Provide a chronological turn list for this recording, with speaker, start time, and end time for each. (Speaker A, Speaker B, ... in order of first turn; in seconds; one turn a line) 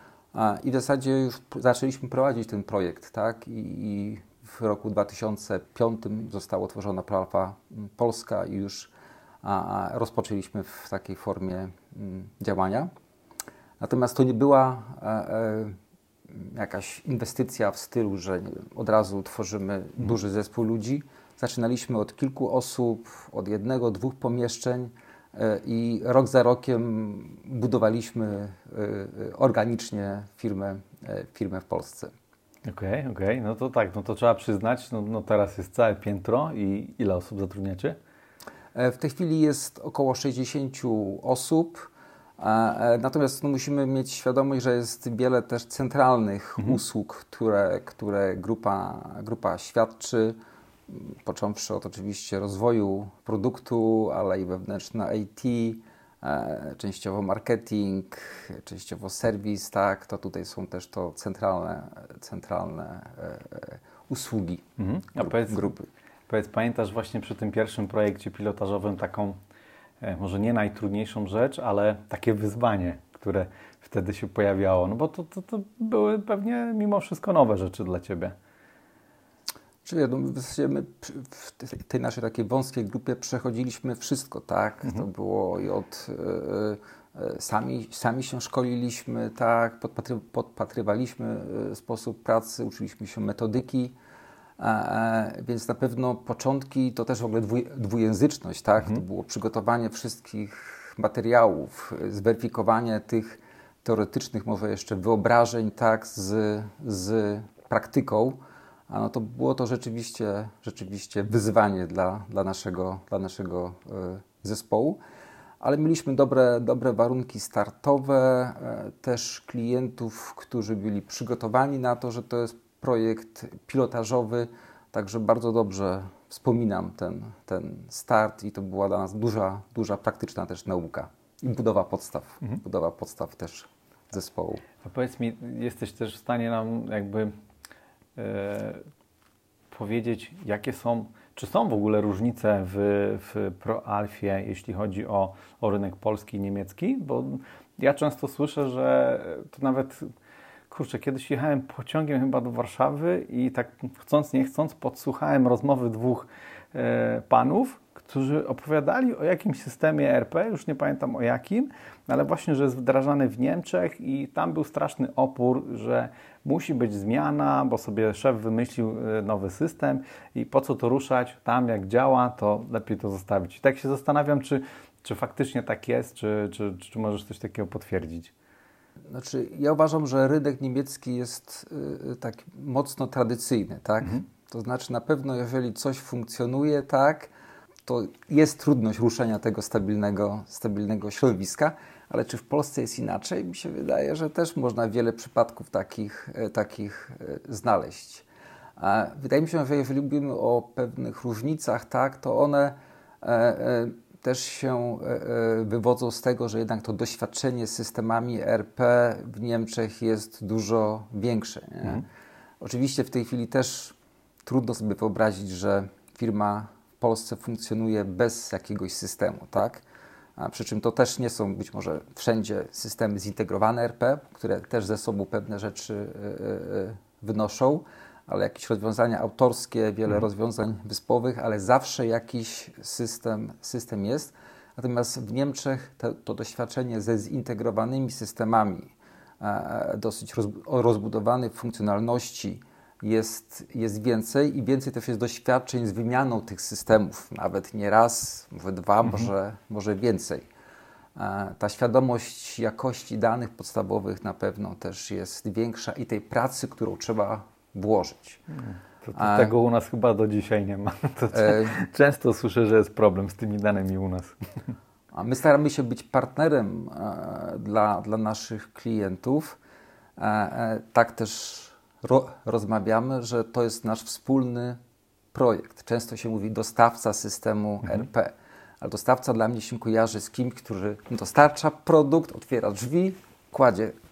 Speaker A: 0.3-8.9
Speaker A: 9.4-12.9
Speaker A: 13.8-15.8
Speaker A: 16.3-32.1
Speaker B: 32.6-38.0
Speaker A: 38.7-64.7
Speaker B: 64.8-65.7
Speaker A: 65.2-65.9
Speaker B: 66.3-69.4
Speaker B: 70.0-78.3
Speaker A: 79.8-93.9
Speaker A: 94.6-108.4
Speaker A: 108.9-115.0
Speaker A: 115.6-134.6
Speaker B: 134.8-137.3
Speaker B: 138.2-138.8
Speaker B: 139.7-150.1
Speaker B: 150.7-178.3
Speaker A: 179.1-187.3
Speaker A: 187.8-198.2
Speaker A: 198.8-212.1
Speaker A: 212.6-219.8
Speaker A: 220.4-250.4
Speaker A: 251.2-258.4
Speaker B: 258.6-264.4
Speaker A: 259.1-259.5
Speaker A: 261.3-261.8
Speaker A: 265.1-269.6
Speaker A: 270.2-274.8
Speaker A: 275.3-283.9